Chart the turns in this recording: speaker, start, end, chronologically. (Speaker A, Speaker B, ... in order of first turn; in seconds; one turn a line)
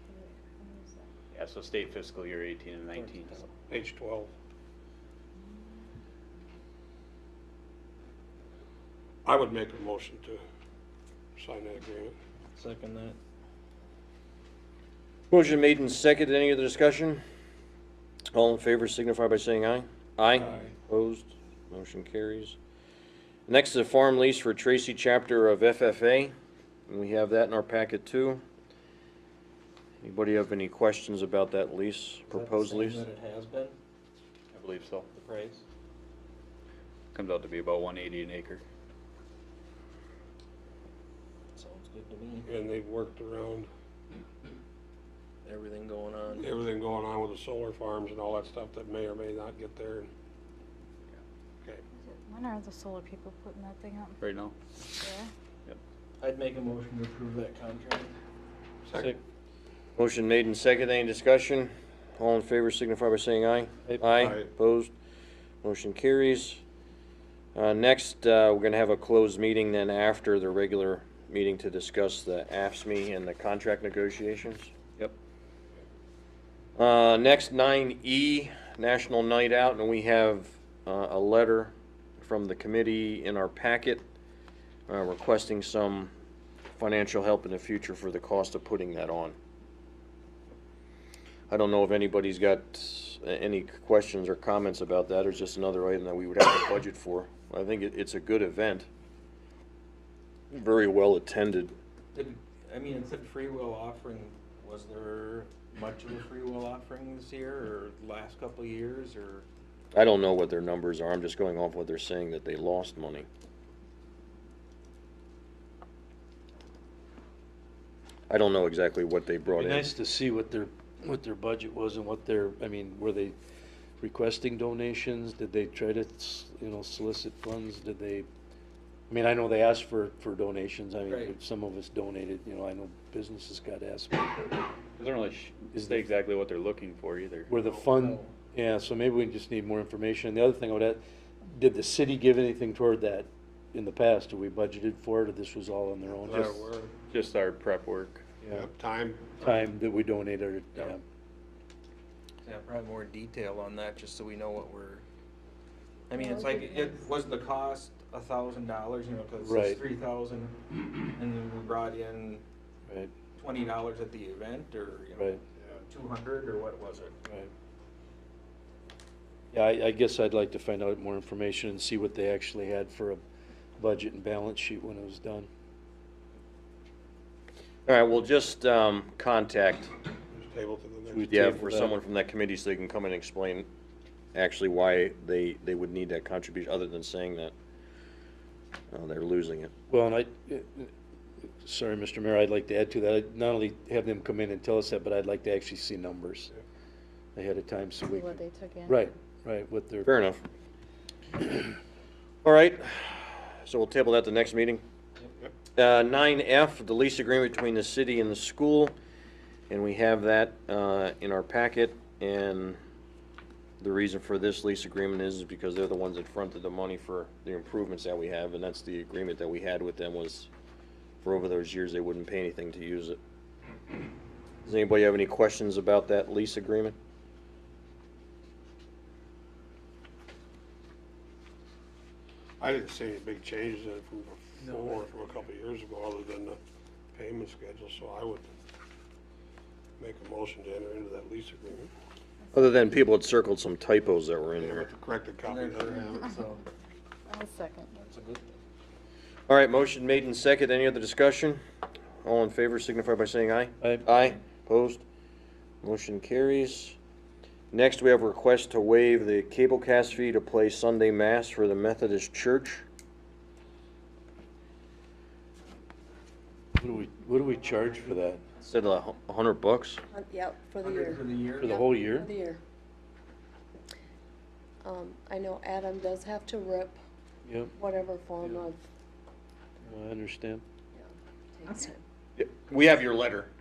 Speaker A: 0.1-1.0
Speaker B: 1.3-3.5
Speaker C: 2.9-3.4
Speaker D: 3.7-4.3
Speaker D: 9.2-10.4
Speaker D: 11.3-12.2
Speaker C: 12.5-13.2
Speaker E: 15.3-17.2
Speaker E: 18.3-22.6
Speaker E: 23.5-26.3
Speaker E: 26.9-28.4
Speaker E: 30.0-33.0
Speaker C: 32.3-33.8
Speaker B: 34.5-35.1
Speaker C: 35.1-35.6
Speaker B: 37.1-38.6
Speaker C: 41.5-42.5
Speaker D: 42.4-43.7
Speaker C: 45.4-46.5
Speaker D: 46.3-50.1
Speaker A: 52.0-54.2
Speaker B: 54.2-54.5
Speaker A: 55.0-55.3
Speaker C: 56.2-58.1
Speaker D: 58.8-59.1
Speaker E: 60.0-64.9
Speaker F: 63.8-64.2
Speaker D: 64.2-64.5
Speaker E: 65.6-66.6
Speaker E: 67.5-75.1
Speaker E: 76.8-84.0
Speaker E: 84.9-86.1
Speaker E: 86.7-89.3
Speaker E: 91.5-98.9
Speaker E: 100.5-101.7
Speaker C: 102.1-109.5
Speaker E: 109.9-113.3
Speaker E: 118.3-119.9
Speaker F: 119.5-123.3
Speaker F: 124.0-128.3
Speaker F: 129.1-134.6
Speaker C: 131.1-131.3
Speaker B: 135.0-137.5
Speaker F: 135.7-136.0
Speaker F: 137.5-146.6
Speaker C: 137.9-138.3
Speaker D: 146.2-146.9
Speaker B: 147.1-148.3
Speaker F: 148.4-148.7
Speaker D: 148.5-149.5
Speaker F: 149.4-151.0
Speaker C: 152.4-155.0
Speaker C: 156.1-160.6
Speaker G: 156.1-156.9
Speaker F: 159.4-159.8
Speaker C: 161.1-162.4
Speaker C: 163.3-167.1
Speaker F: 165.2-165.4
Speaker F: 167.2-167.5
Speaker F: 169.5-173.2
Speaker F: 173.8-175.5
Speaker E: 177.8-179.9
Speaker D: 180.3-181.7
Speaker F: 181.1-181.9
Speaker E: 181.3-183.7
Speaker E: 184.3-187.5
Speaker E: 188.9-189.7
Speaker F: 189.9-190.9
Speaker F: 191.6-196.5
Speaker F: 197.3-200.1
Speaker A: 198.1-199.1
Speaker E: 200.0-200.4
Speaker E: 202.4-204.8
Speaker E: 205.8-208.9
Speaker E: 209.7-212.8
Speaker E: 213.8-220.5
Speaker E: 221.2-223.2
Speaker E: 224.6-227.0
Speaker D: 232.6-236.6
Speaker D: 237.1-238.5
Speaker D: 240.0-241.9
Speaker E: 242.5-244.8
Speaker D: 244.6-246.3
Speaker C: 245.4-246.6
Speaker A: 247.3-247.9
Speaker C: 248.0-248.6
Speaker E: 249.5-251.6
Speaker E: 252.2-255.0
Speaker F: 253.8-254.1
Speaker E: 255.8-257.0
Speaker E: 257.7-262.8
Speaker F: 266.8-268.4
Speaker E: 268.6-270.0
Speaker G: 270.1-272.6
Speaker C: 270.8-271.8
Speaker F: 271.6-272.3
Speaker G: 274.8-277.0
Speaker F: 277.4-277.7
Speaker G: 277.8-278.8
Speaker F: 279.8-280.6
Speaker G: 280.9-282.0
Speaker E: 282.4-283.5